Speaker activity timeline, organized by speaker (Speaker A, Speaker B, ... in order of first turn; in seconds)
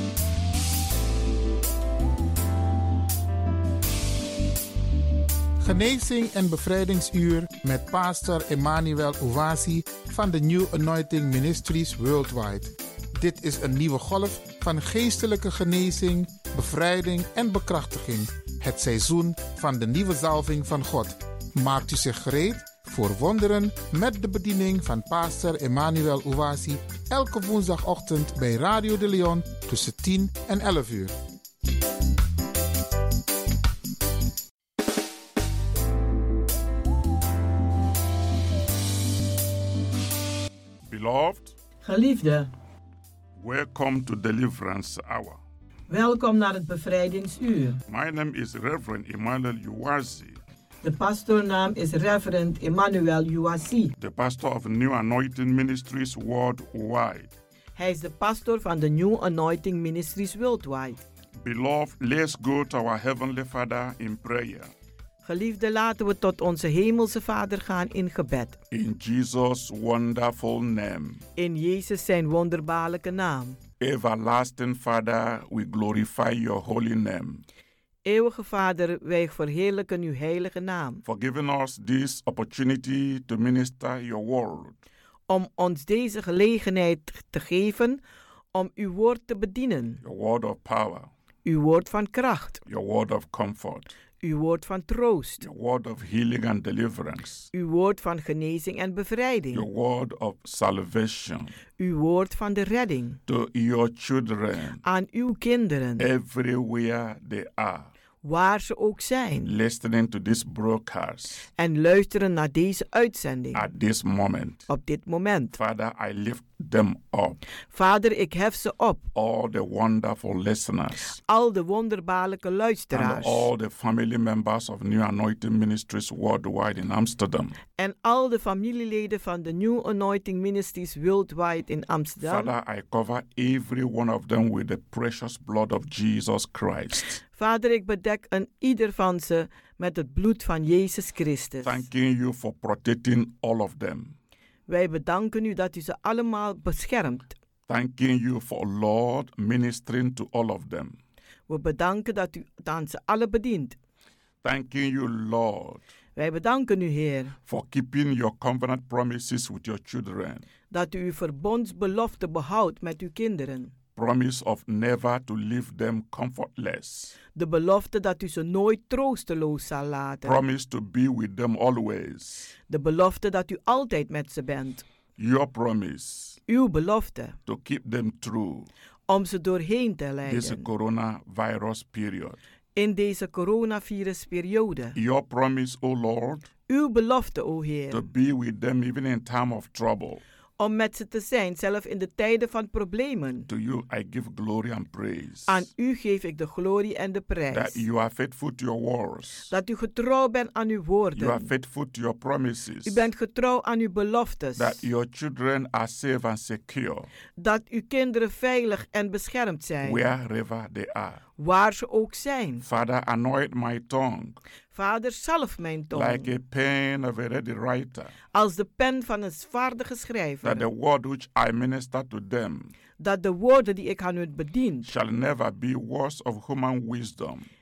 Speaker A: 5.6-31.1
Speaker B: 40.9-41.6, 43.4-45.4, 47.9-50.4, 54.0-57.4, 61.4-64.7, 68.7-71.2, 73.8-77.5, 81.0-84.8, 90.0-91.1, 92.7-93.9, 95.4-97.5, 99.5-101.5, 103.3-104.8, 106.0-107.9, 109.5-111.5, 113.5-114.6, 115.5-117.4, 119.1-121.2, 122.9-127.6, 132.2-137.2, 141.6-144.2, 147.7-151.0, 154.4-155.8, 157.5-160.5, 164.0-167.2, 170.2-172.5, 175.2-176.4, 177.5-178.7, 180.2-182.4, 184.9-186.5, 187.9-190.2, 193.5-195.7, 197.5-199.5, 201.2-203.0, 204.6-207.1, 209.8-211.2, 212.6-214.4, 215.9-218.1, 220.4-222.7, 224.8-227.5
Speaker C: 41.8-42.5, 45.9-47.8, 50.8-53.9, 57.8-61.0, 65.2-68.6, 71.4-73.6, 78.0-81.0, 85.3-88.0, 88.5-90.0, 91.5-92.6, 94.2-95.4, 97.5-99.7, 101.8-103.2, 104.8-106.0, 108.2-109.5, 111.6-113.7, 114.7-115.6, 117.7-119.0, 121.2-123.5, 127.8-132.5, 137.3-141.8, 144.7-147.3, 151.5-153.8, 156.2-157.4, 160.7-163.7, 167.3-170.4, 172.7-174.8, 176.5-177.4, 179.1-180.7, 182.8-185.0, 186.7-188.1, 190.6-193.5, 195.5-197.8, 199.5-201.5, 202.9-204.8, 207.4-210.0, 211.4-212.6, 214.7-216.3, 218.3-220.7, 223.0-224.9